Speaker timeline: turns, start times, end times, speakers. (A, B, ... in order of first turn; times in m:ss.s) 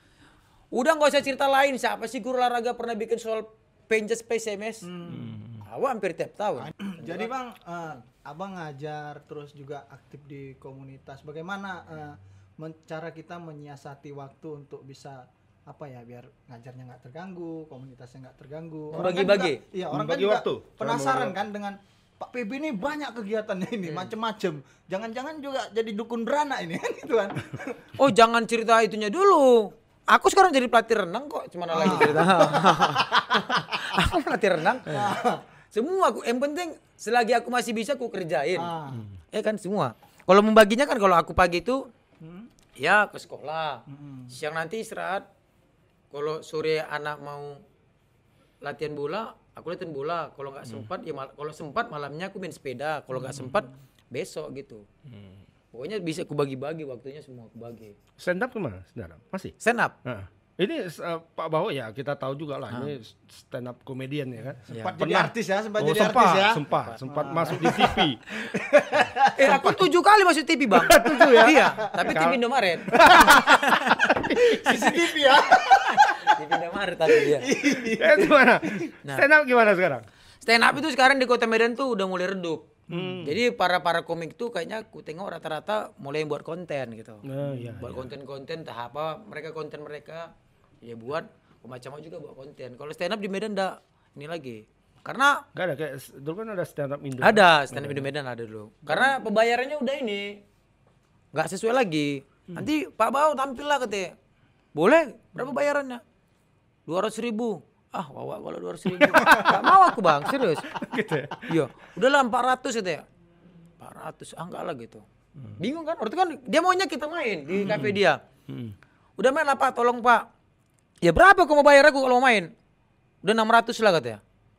0:00.7-0:04.9 A
0:04.8-0:05.3 B
0:05.1-0:05.6 C
0:05.6-0:07.3 A
0:06.6-0:27.8 B
0:18.9-0:19.6 A
0:19.9-0:21.3 C
0:23.8-0:24.1 A
0:28.0-0:35.1 A
0:31.7-0:34.0 B
0:34.8-0:35.4 B
0:35.7-0:38.7 A
0:38.6-0:39.0 B
0:39.3-0:41.8 A
0:42.2-0:42.5 B
0:42.8-0:45.2 A
0:43.9-0:44.3 B
0:46.1-0:47.6 A
0:48.6-0:54.8 A
0:53.2-0:53.7 B
0:55.1-0:55.4 C
0:55.7-0:58.0 A
0:58.2-1:08.4 C
0:59.6-0:59.9 A
1:02.7-1:03.0 A
1:04.7-1:05.0 A
1:04.8-1:09.6 B
1:06.7-1:07.6 A
1:09.3-1:14.2 A
1:09.4-1:09.8 C
1:10.7-1:15.0 C
1:12.9-1:13.4 B
1:14.2-1:16.4 B
1:15.8-1:17.5 A
1:17.0-1:18.9 B
1:17.8-1:20.0 C
1:20.4-1:27.2 A
1:22.9-1:23.4 C
1:27.3-1:28.1 C
1:27.8-1:30.3 A
1:30.8-1:35.4 A
1:35.5-1:38.1 C
1:37.2-1:40.4 A
1:41.3-1:44.1 A
1:44.7-1:46.0 A
1:46.9-1:50.7 A
1:48.9-1:49.8 C
1:50.4-1:51.5 C
1:51.4-1:53.0 A
1:53.8-1:55.0 A
1:55.6-1:58.2 A
1:57.6-1:58.0 C
1:58.5-1:58.7 C
1:59.2-2:00.2 A
2:01.0-2:02.5 A
2:03.2-2:04.2 A